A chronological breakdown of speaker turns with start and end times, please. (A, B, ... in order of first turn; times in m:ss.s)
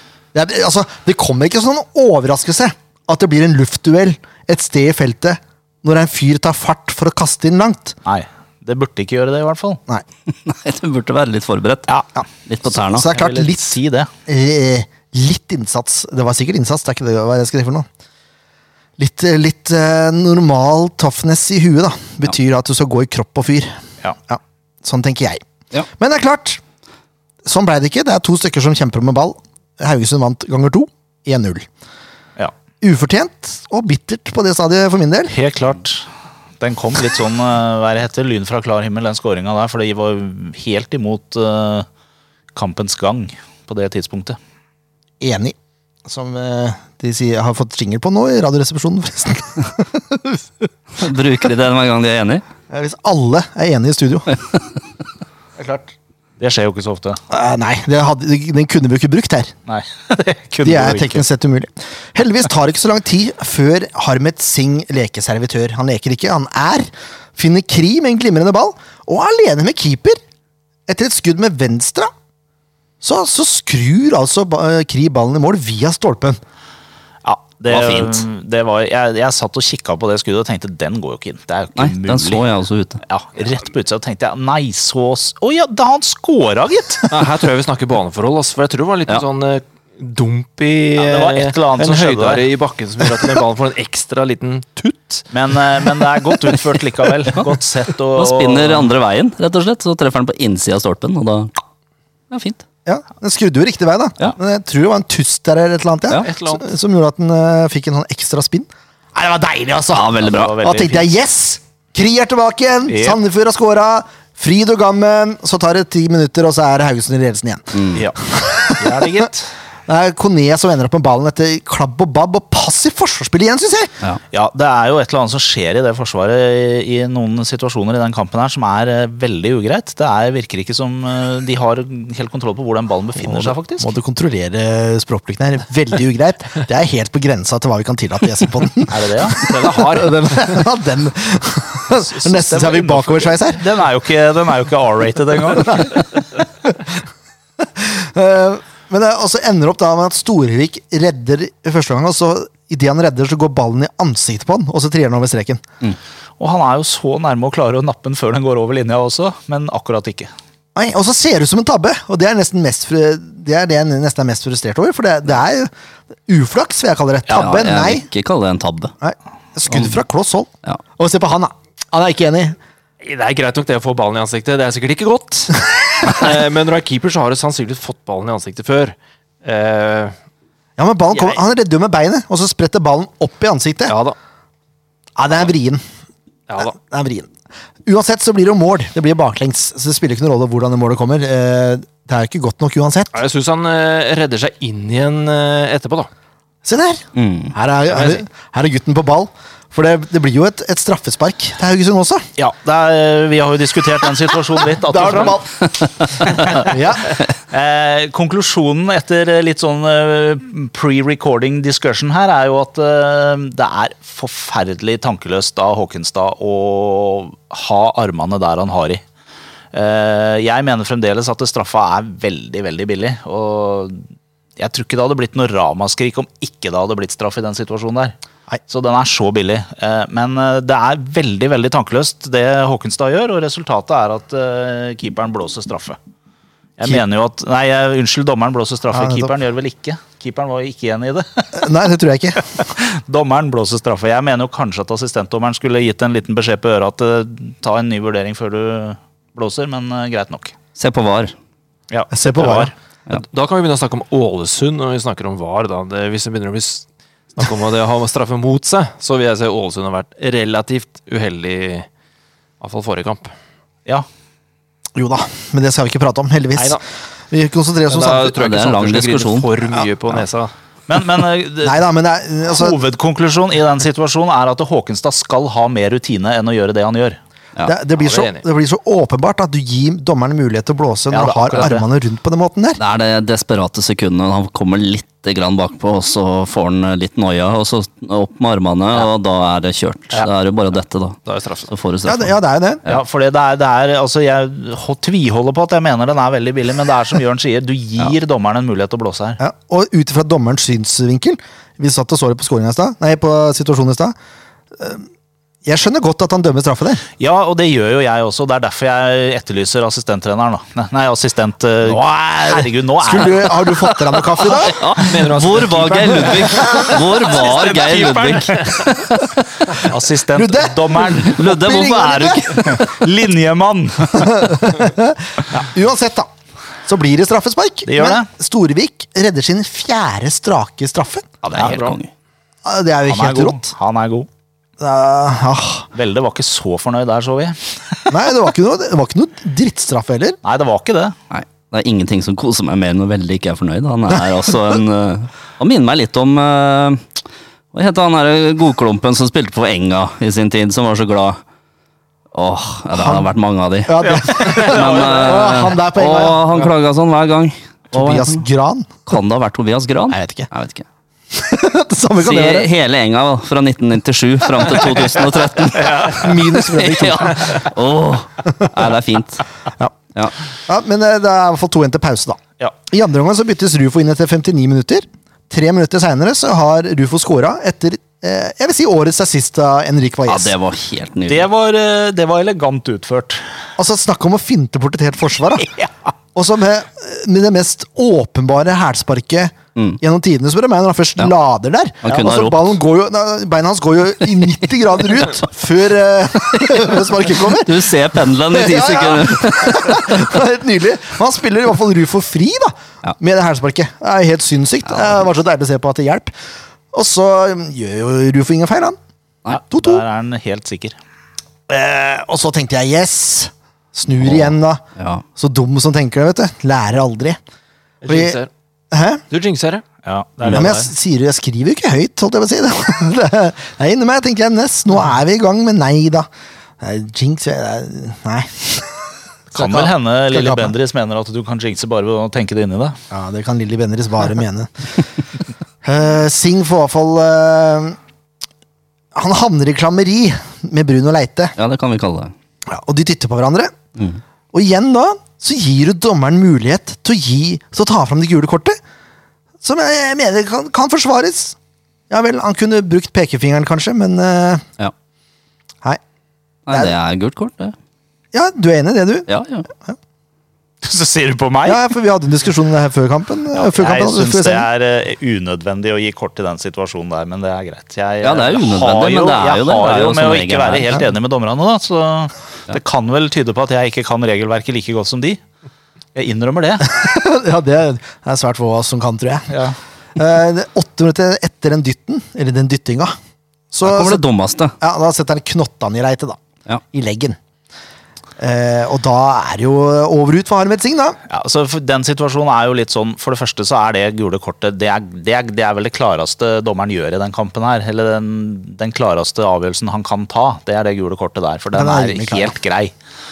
0:00.3-0:08.0 A
0:08.1-0:09.8 B
0:10.3-0:11.9 C
0:12.2-0:13.8 A
0:12.5-0:13.0 C
0:13.0-0:14.1 B
0:14.3-0:17.9 A
0:19.0-0:26.6 A
0:27.4-0:31.7 A
0:32.8-0:35.4 A
0:35.3-0:36.1 B
0:36.6-0:41.9 B
0:42.5-0:44.4 B
0:45.2-0:50.7 A
0:51.0-0:52.4 C
0:52.7-0:54.4 A
0:56.4-0:57.2 B
0:57.3-0:59.5 A
0:59.7-1:01.2 B
1:00.6-1:10.2 A
1:10.9-1:12.1 A
1:13.0-1:16.4 A
1:17.2-1:22.4 B
1:17.7-1:18.2 C
1:21.8-1:23.0 C
1:23.1-1:27.1 B
1:27.1-1:35.3 D
1:31.0-1:32.5 B
1:35.3-1:39.0 B
1:38.2-1:41.5 C
1:42.3-1:42.6 C
1:42.9-1:59.2 A
1:46.2-1:46.7 D
1:49.9-1:50.6 C
1:50.2-1:51.1 B
1:52.9-1:53.2 B
1:57.8-1:58.0 C
1:58.8-1:59.5 B
1:59.9-2:03.9 A
2:04.3-2:13.9 B
2:13.2-2:23.6 A
2:18.9-2:19.4 B
2:19.4-2:20.6 D
2:22.1-2:26.2 B
2:26.6-2:27.0 A
2:27.6-2:35.6 A
2:36.4-2:40.3 B
2:40.8-2:45.7 A
2:46.3-2:48.1 A
2:47.3-2:48.9 C
2:49.0-2:52.6 A
2:49.7-2:50.0 C
2:53.0-3:00.2 D
3:00.8-3:03.9 A
3:01.1-3:01.4 D
3:03.9-3:04.2 D
3:05.2-3:05.8 A
3:06.5-3:06.8 D
3:06.6-3:07.3 A
3:07.9-3:13.1 A
3:13.1-3:16.1 D
3:16.6-3:22.2 A
3:17.2-3:17.6 C
3:17.9-3:18.2 D
3:22.4-3:25.4 B
3:24.7-3:25.7 A
3:25.7-3:25.9 C
3:26.2-3:27.2 A
3:26.2-3:26.7 B
3:27.5-3:39.0 B
3:39.7-3:44.0 B
3:44.6-3:48.1 B
3:48.7-3:56.0 B
3:56.8-4:01.7 B
3:58.9-3:59.3 A
4:01.5-4:02.7 A
4:02.6-4:10.6 B
4:10.8-4:11.4 C
4:11.9-4:12.7 B
4:12.1-4:12.7 A
4:13.1-4:21.9 D
4:22.6-4:23.3 D
4:25.0-4:28.3 A
4:26.6-4:26.8 D
4:27.9-4:30.5 D
4:28.3-4:29.5 C
4:30.9-4:31.8 B
4:31.6-4:32.8 A
4:32.5-4:37.2 B
4:37.6-4:42.8 A
4:38.0-4:38.4 D
4:41.1-4:41.8 B
4:42.8-4:51.2 C
4:51.2-4:51.7 D
4:51.7-4:52.3 C
4:52.0-4:52.8 A
4:52.9-4:59.4 B
4:59.4-5:04.2 A
5:04.7-5:05.1 A
5:05.6-5:07.0 A
5:07.2-5:14.4 B
5:11.8-5:14.8 A
5:14.7-5:18.7 D
5:14.8-5:19.3 C
5:17.3-5:18.4 B
5:19.8-5:21.9 B
5:20.3-5:22.9 A
5:21.3-5:22.8 C
5:22.5-5:24.6 B
5:24.1-5:26.3 A
5:26.8-5:31.4 A
5:27.9-5:28.3 B
5:31.4-5:31.9 B
5:31.5-5:32.0 D
5:31.5-5:32.1 C
5:32.6-5:33.7 A
5:33.1-5:34.3 B
5:34.8-5:35.9 A
5:35.9-5:38.1 B
5:38.1-5:40.4 A
5:40.4-5:41.2 B
5:41.3-5:47.2 C
5:47.7-5:51.4 C
5:52.3-5:58.4 C
5:52.9-5:53.3 A
5:53.9-5:56.5 A
5:54.1-5:55.2 B
5:57.9-5:59.0 A
5:59.1-6:00.9 C
6:00.1-6:00.5 A
6:01.3-6:02.7 A
6:02.2-6:09.5 C
6:05.8-6:06.2 B
6:06.1-6:07.7 A
6:10.7-6:20.6 A
6:20.3-6:21.5 C
6:21.3-6:23.4 B
6:23.8-6:25.7 A
6:26.4-6:46.3 A
6:32.0-6:32.8 C
6:36.5-6:40.4 C
6:46.9-6:49.0 A
6:49.5-6:51.0 B
6:49.7-6:50.0 A
6:51.7-6:54.8 A
6:54.2-6:55.2 C
6:55.4-6:57.4 A
6:58.0-6:58.5 D
6:58.1-6:58.4 A
6:58.9-6:59.2 A
6:59.3-6:59.8 D
7:00.0-7:00.8 B
7:00.4-7:06.3 A
7:00.5-7:00.9 D
7:06.8-7:10.7 A
7:09.6-7:13.0 B
7:13.1-7:15.1 A
7:15.8-7:18.0 A
7:19.1-7:21.6 A
7:21.6-7:22.3 C
7:22.7-7:23.8 A
7:24.5-7:28.8 A
7:29.6-7:31.6 A
7:32.1-7:34.6 A
7:36.7-7:37.8 C
7:36.7-7:37.0 A
7:38.3-7:40.0 A
7:39.3-7:39.7 C
7:40.8-7:41.8 B
7:41.6-7:44.6 A
7:43.5-7:55.4 B
7:48.2-7:50.9 C
7:56.1-7:56.9 B
7:56.8-7:59.6 A
7:59.5-7:59.8 B
8:00.2-8:03.1 A
8:03.7-8:04.2 A
8:03.8-8:04.7 C
8:04.8-8:06.4 A
8:06.9-8:07.4 A
8:08.4-8:11.2 A
8:11.3-8:22.9 B
8:21.7-8:22.6 A